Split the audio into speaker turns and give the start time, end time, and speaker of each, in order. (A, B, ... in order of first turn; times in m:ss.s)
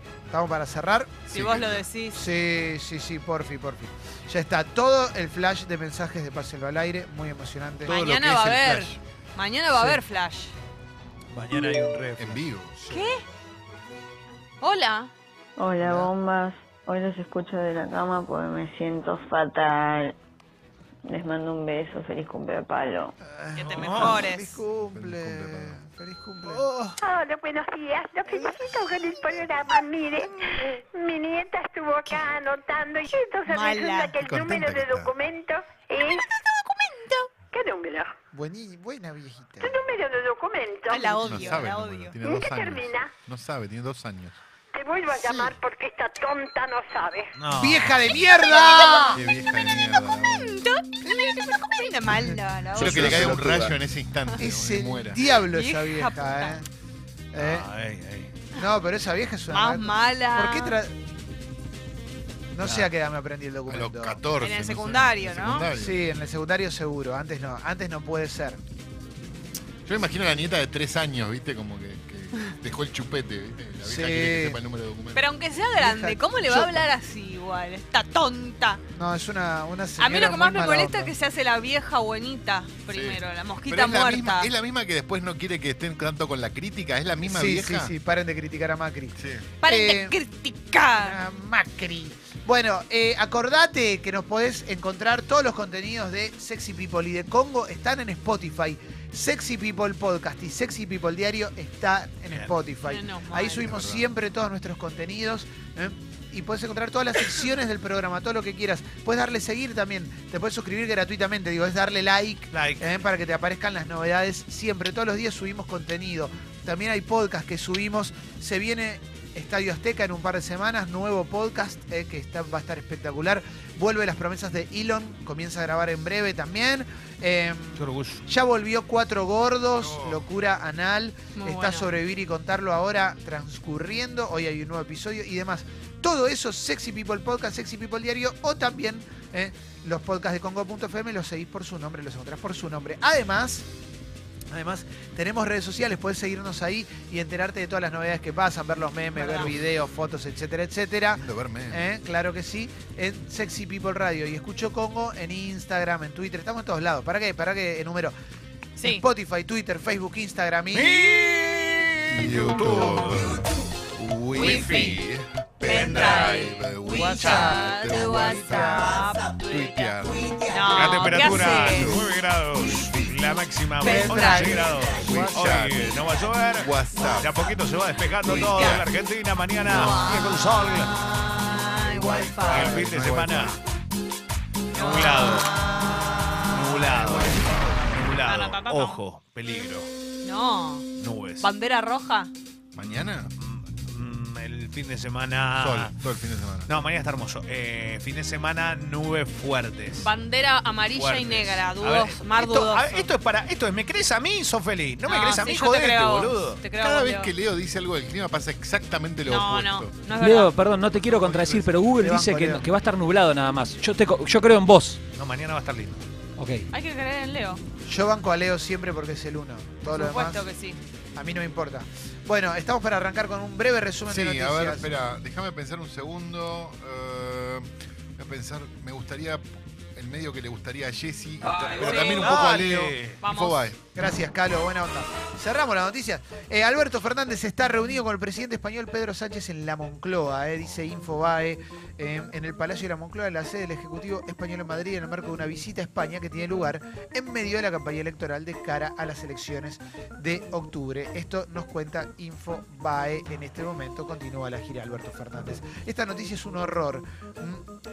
0:00.3-0:01.3 A
0:01.3-0:02.2 B
0:01.3-0:01.8 C
0:02.1-0:08.0 A
0:07.8-0:09.0 C
0:07.9-0:10.5 B
0:09.7-0:10.0 A
0:11.3-0:12.4 A
0:12.2-0:13.1 C
0:12.9-0:13.2 B
0:14.6-0:15.1 B
0:15.6-0:20.1 D
0:15.8-0:16.1 A
0:21.1-0:23.1 D
0:23.2-0:26.9 A
0:23.5-0:24.6 B
0:23.6-0:24.2 E
0:24.7-0:25.8 C
0:27.0-0:36.3 F
0:33.4-0:34.1 B
0:34.1-0:35.2 C
0:36.0-0:37.3 B
0:37.5-0:38.1 F
0:38.3-0:39.8 A
0:39.6-0:41.4 F
0:40.9-0:42.1 B
0:41.2-0:44.4 C
0:42.2-0:43.1 F
0:44.7-0:47.3 F
0:45.2-0:45.5 A
0:47.4-0:48.2 E
0:47.5-0:49.2 A
0:48.4-0:49.1 B
0:49.1-0:50.6 C
0:50.0-0:53.3 B
0:52.0-0:53.7 A
0:52.7-0:55.2 C
0:54.4-0:56.6 A
0:55.3-0:56.6 B
0:57.3-0:57.7 A
0:57.4-0:58.3 E
0:58.5-1:01.0 A
0:59.5-1:00.8 B
1:02.5-1:04.2 A
1:02.6-1:02.9 E
1:03.7-1:06.0 C
1:04.4-1:05.7 B
1:05.7-1:08.6 A
1:09.8-1:15.3 C
1:13.8-1:14.6 A
1:15.1-1:18.8 B
1:15.8-1:16.9 A
1:18.9-1:21.1 A
1:20.0-1:24.5 B
1:22.9-1:27.9 C
1:27.2-1:30.2 A
1:29.2-1:29.5 C
1:29.6-1:31.2 B
1:30.9-2:23.7 A
1:42.8-1:43.7 B
1:43.7-1:44.0 C
1:52.5-1:52.9 E
2:07.8-2:08.2 E
2:09.8-2:10.2 C
2:11.4-2:11.9 B
2:24.5-2:38.1 A
2:29.1-2:29.6 B
2:31.1-2:31.9 C
2:38.8-2:39.0 B
2:38.8-2:41.0 A
2:40.7-2:43.3 E
2:42.1-2:53.2 C
2:42.6-2:43.0 A
2:44.4-2:44.9 B
2:44.4-2:45.0 E
2:45.6-2:46.5 E
2:45.6-2:51.9 B
2:46.9-2:49.1 A
2:50.7-3:01.0 E
2:53.8-2:54.8 B
2:53.8-2:54.5 A
2:55.0-2:57.6 C
2:58.2-2:58.9 C
2:59.7-3:02.8 B
3:01.8-3:03.6 C
3:02.5-3:03.6 E
3:04.7-3:06.5 B
3:04.7-3:05.5 E
3:06.5-3:09.9 E
3:06.8-3:07.9 C
3:08.2-3:09.0 B
3:10.2-3:10.9 B
3:11.0-3:11.5 E
3:11.4-3:12.3 B
3:12.7-3:13.3 C
3:12.8-3:15.9 E
3:15.6-3:16.7 C
3:16.7-3:20.1 E
3:20.0-3:23.1 B
3:20.9-3:26.6 E
3:25.0-3:27.3 B
3:26.7-3:30.0 C
3:29.3-3:30.5 B
3:30.1-3:35.0 G
3:31.1-3:32.7 A
3:35.1-3:36.0 E
3:36.4-3:36.7 G
3:36.7-3:37.6 B
3:37.8-3:40.4 A
3:39.9-3:40.8 B
3:41.1-3:44.8 A
3:44.1-3:53.8 C
3:51.8-3:52.4 B
3:52.0-3:53.2 E
3:53.2-3:53.7 B
3:53.9-4:17.6 A